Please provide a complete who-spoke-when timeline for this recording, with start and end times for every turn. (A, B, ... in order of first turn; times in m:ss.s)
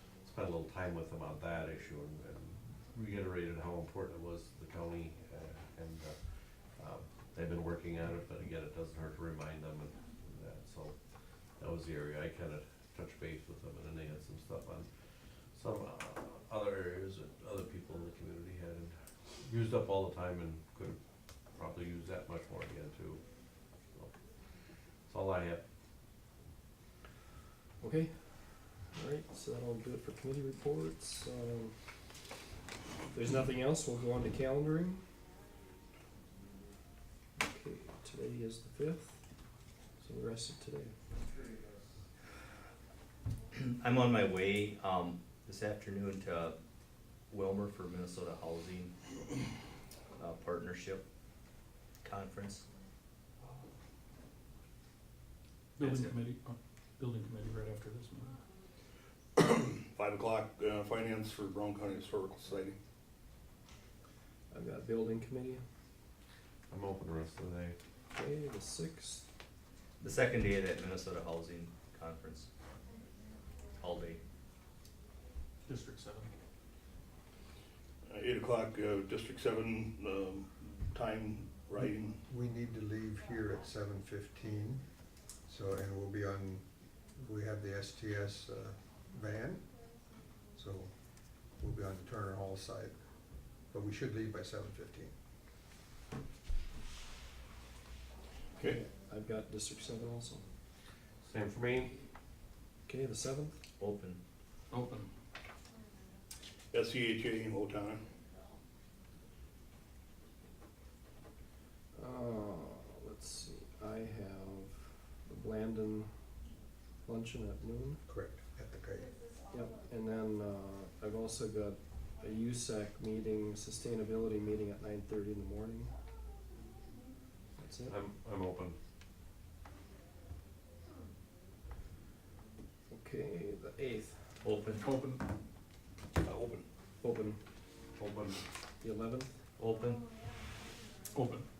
0:00.2-0:06.2 A
0:06.8-0:11.0 A
0:11.6-0:14.9 A
0:15.5-0:21.0 A
0:21.6-0:23.2 A
0:25.1-0:25.6 A
0:27.8-0:31.8 B
0:33.1-0:35.0 B
0:37.4-0:39.2 B
0:40.0-0:41.8 B
0:43.5-0:46.6 C
0:47.3-0:49.0 C
0:50.2-0:51.0 C
0:52.0-0:52.7 C
0:55.8-0:58.4 D
0:59.4-1:02.8 E
1:04.5-1:05.6 B
1:06.7-1:07.8 A
1:08.1-1:09.2 B
1:10.0-1:12.5 C
1:13.8-1:14.2 C
1:15.7-1:16.3 D
1:18.1-1:22.2 E
1:22.3-1:24.8 F
1:25.5-1:29.6 F
1:30.6-1:30.9 F
1:31.6-1:32.9 F
1:33.7-1:35.1 F
1:38.6-1:40.5 B
1:41.2-1:42.0 A
1:42.9-1:43.6 B
1:43.8-1:44.2 C
1:44.7-1:45.1 D
1:46.7-1:48.1 E
1:51.9-1:56.1 B
1:57.1-1:58.0 B
1:58.1-1:59.1 F
1:59.5-2:05.9 B
2:07.6-2:08.0 B
2:07.9-2:08.8 A
2:12.9-2:14.3 B
2:14.4-2:14.8 C
2:14.8-2:15.2 D
2:16.2-2:16.7 E
2:17.0-2:17.4 B
2:18.0-2:18.4 A
2:18.8-2:19.4 B
2:19.6-2:20.1 C
2:21.1-2:21.5 D